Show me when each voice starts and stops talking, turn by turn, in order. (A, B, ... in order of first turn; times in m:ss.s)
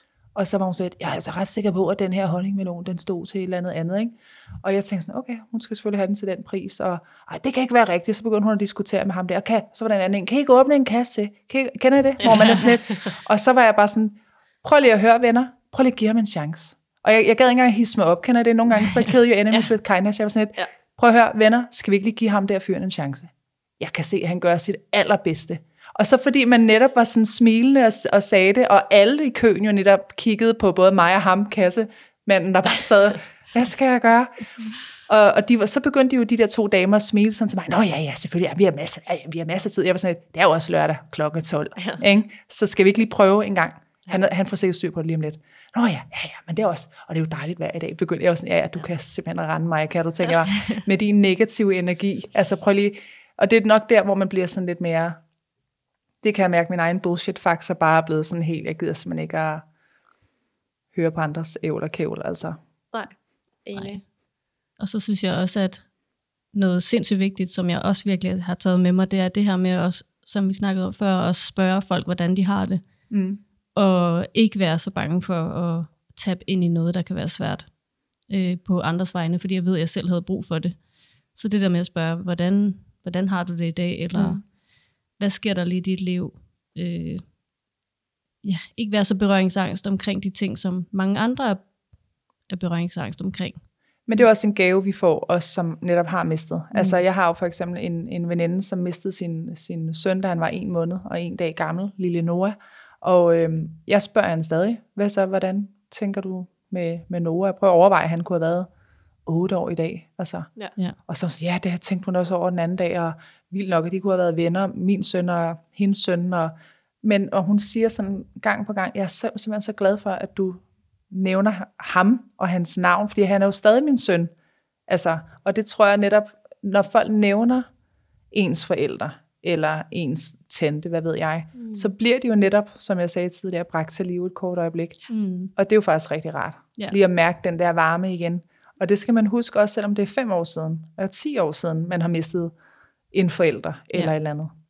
0:00.4-0:55.2 A
0:12.3-0:12.7 B
0:56.2-0:59.7 A
1:00.9-1:02.6 A
1:02.9-1:04.0 B
1:03.8-1:04.1 C
1:04.8-1:05.9 C
1:06.5-1:12.8 C
1:13.1-1:13.4 A
1:13.8-1:24.6 C
1:24.2-1:24.4 A
1:25.2-1:27.2 C
1:28.4-1:31.7 C
1:32.5-1:33.6 C
1:34.1-1:48.7 A
1:36.7-1:37.0 C
1:49.3-1:50.5 A
1:51.1-2:04.3 A
2:04.9-2:07.7 A
2:08.3-2:15.0 A
2:11.6-2:11.9 B
2:15.1-2:15.5 C
2:15.6-2:22.5 A
2:23.1-2:24.5 A